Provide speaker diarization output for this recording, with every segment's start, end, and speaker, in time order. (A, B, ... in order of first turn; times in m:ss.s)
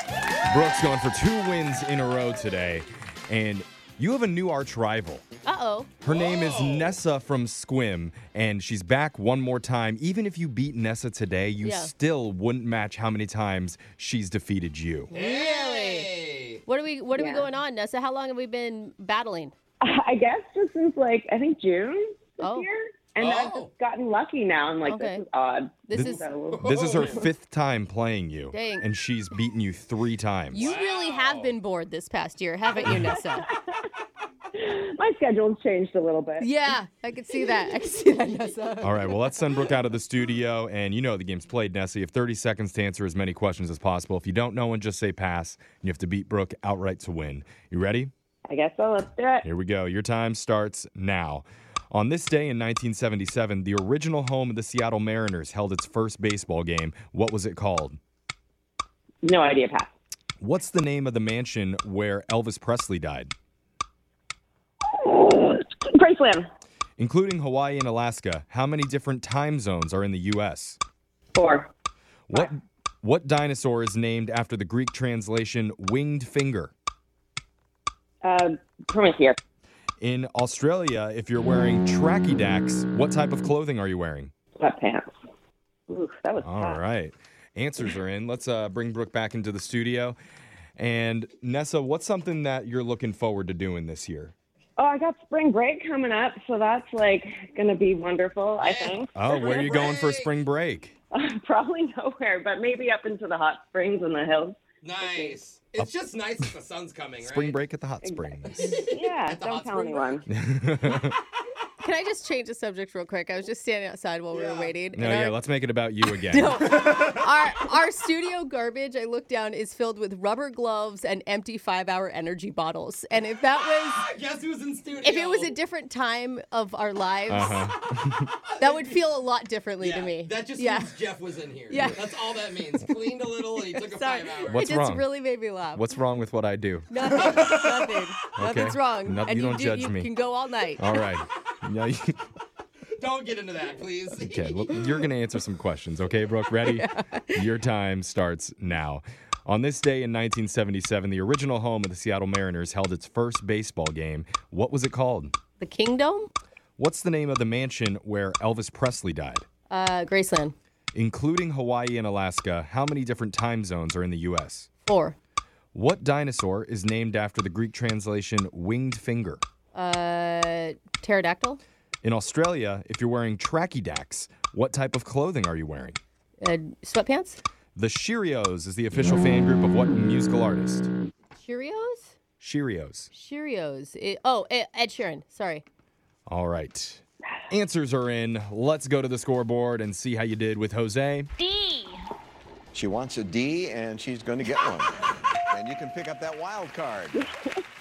0:00.5-0:05.2 A
0:05.4-0:05.9 B
0:06.0-0:15.1 A
0:06.0-0:07.0 C
0:11.6-0:11.9 B
0:15.1-0:16.1 B
0:15.1-0:16.6 C
0:16.6-0:19.5 B
0:17.1-0:17.5 D
0:19.8-0:27.2 D
0:22.4-0:22.7 B
0:23.2-0:23.7 C
0:24.8-0:25.2 B
0:25.9-0:26.2 B
0:25.9-0:30.6 A
0:26.5-0:27.1 C
0:28.5-0:28.8 B
0:30.5-0:33.5 B
0:30.5-0:31.5 C
0:33.4-0:33.8 D
0:34.6-0:36.8 D
0:36.4-0:39.2 B
0:38.8-0:48.1 A
0:48.5-0:49.5 D
0:49.4-0:58.0 A
0:59.2-0:59.9 D
1:00.4-1:03.3 A
1:04.9-1:06.5 D
1:07.0-1:10.8 A
1:11.3-1:11.7 D
1:12.3-1:16.7 A
1:18.2-1:19.4 D
1:20.0-1:24.3 A
1:24.6-1:25.1 D
1:25.9-1:26.8 D
1:26.4-1:30.2 A
1:30.8-1:34.3 A
1:34.8-1:39.9 D
1:38.6-1:40.3 C
1:39.2-1:40.9 A
1:41.1-1:45.4 D
1:44.8-1:47.6 C
1:47.2-1:48.8 A
1:48.0-1:50.2 D
1:48.6-1:50.3 C
1:50.3-1:51.2 A
1:51.8-1:55.4 B
1:54.3-1:54.8 C
1:54.9-1:56.9 A
1:56.0-2:04.0 B
2:03.8-2:05.5 C
2:05.0-2:07.7 B
2:07.3-2:08.3 A
2:08.5-2:09.0 C
2:08.6-2:11.0 B
2:09.8-2:14.7 C
2:11.7-2:12.1 B
2:13.6-2:15.9 B
2:14.4-2:15.1 A
2:15.7-2:17.4 A
2:16.9-2:21.0 B
2:17.2-2:17.6 C
2:18.4-2:20.1 A
2:20.8-2:22.1 A
2:23.0-2:25.0 C
2:24.2-2:35.3 A
2:26.7-2:27.4 B
2:35.6-2:36.3 B
2:36.8-2:39.4 A
2:39.7-2:40.5 B
2:40.9-2:44.7 A
2:44.8-2:45.2 B
2:45.7-2:49.4 A
2:49.7-2:51.6 B
2:52.0-2:56.0 A
2:56.4-2:57.4 B
2:57.8-3:00.9 A
3:01.4-3:02.1 B
3:02.4-3:03.1 A
3:03.1-3:05.6 B
3:06.3-3:11.3 A
3:11.4-3:11.9 D
3:12.7-3:17.3 E